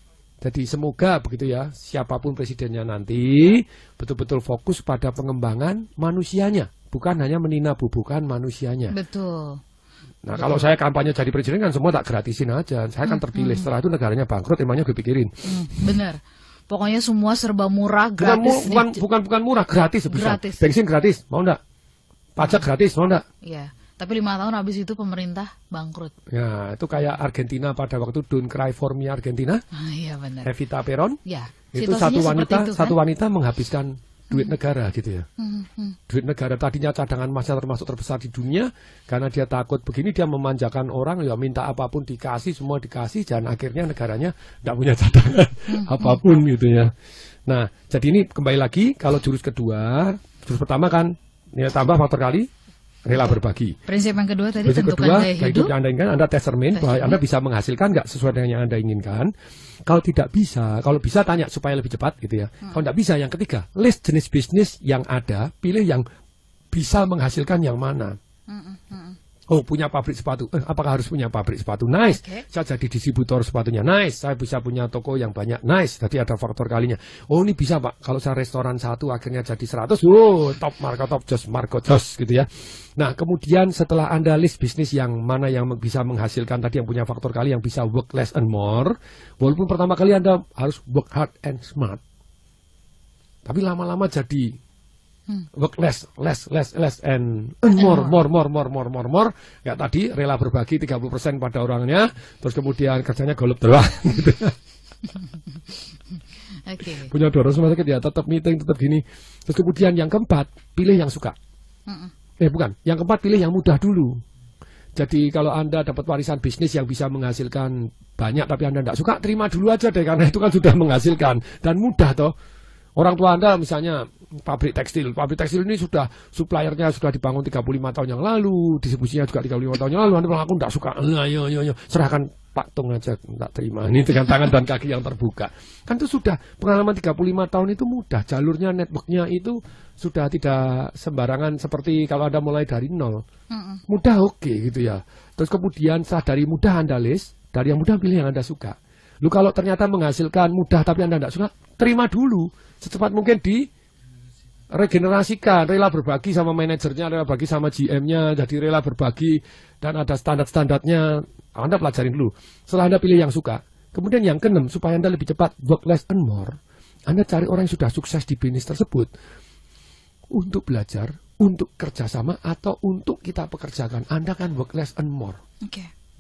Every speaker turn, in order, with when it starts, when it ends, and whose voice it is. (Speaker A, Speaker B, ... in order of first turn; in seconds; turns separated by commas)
Speaker A: 0.4-9.0, Speaker B: 8.9-9.6, Speaker A: 10.2-15.3, Speaker B: 10.3-10.7, Speaker B: 13.1-13.7, Speaker B: 15.4-16.2, Speaker B: 16.7-19.0, Speaker A: 18.2-21.6, Speaker B: 20.1-20.6, Speaker A: 22.4-23.2, Speaker B: 23.4-26.1, Speaker A: 26.3-29.6, Speaker B: 29.7-30.5, Speaker A: 30.4-31.2, Speaker B: 31.3-33.0, Speaker A: 31.8-35.3, Speaker B: 35.4-36.0, Speaker A: 36.1-46.9, Speaker B: 45.7-46.2, Speaker A: 47.5-52.5, Speaker A: 53.1-53.8, Speaker B: 53.9-55.7, Speaker A: 54.6-59.3, Speaker B: 56.7-57.2, Speaker A: 59.9-66.0, Speaker A: 66.7-68.2, Speaker B: 68.5-69.2, Speaker A: 69.5-92.0, Speaker B: 72.1-72.4, Speaker A: 93.5-94.5, Speaker A: 95.5-104.6, Speaker B: 97.8-98.2, Speaker B: 106.7-107.1, Speaker A: 107.0-111.4, Speaker A: 112.4-114.2, Speaker A: 115.0-122.3, Speaker A: 123.0-143.2, Speaker B: 143.5-143.8, Speaker A: 143.9-153.7, Speaker A: 154.7-166.6, Speaker A: 167.1-169.1, Speaker A: 170.3-175.4, Speaker B: 175.6-175.9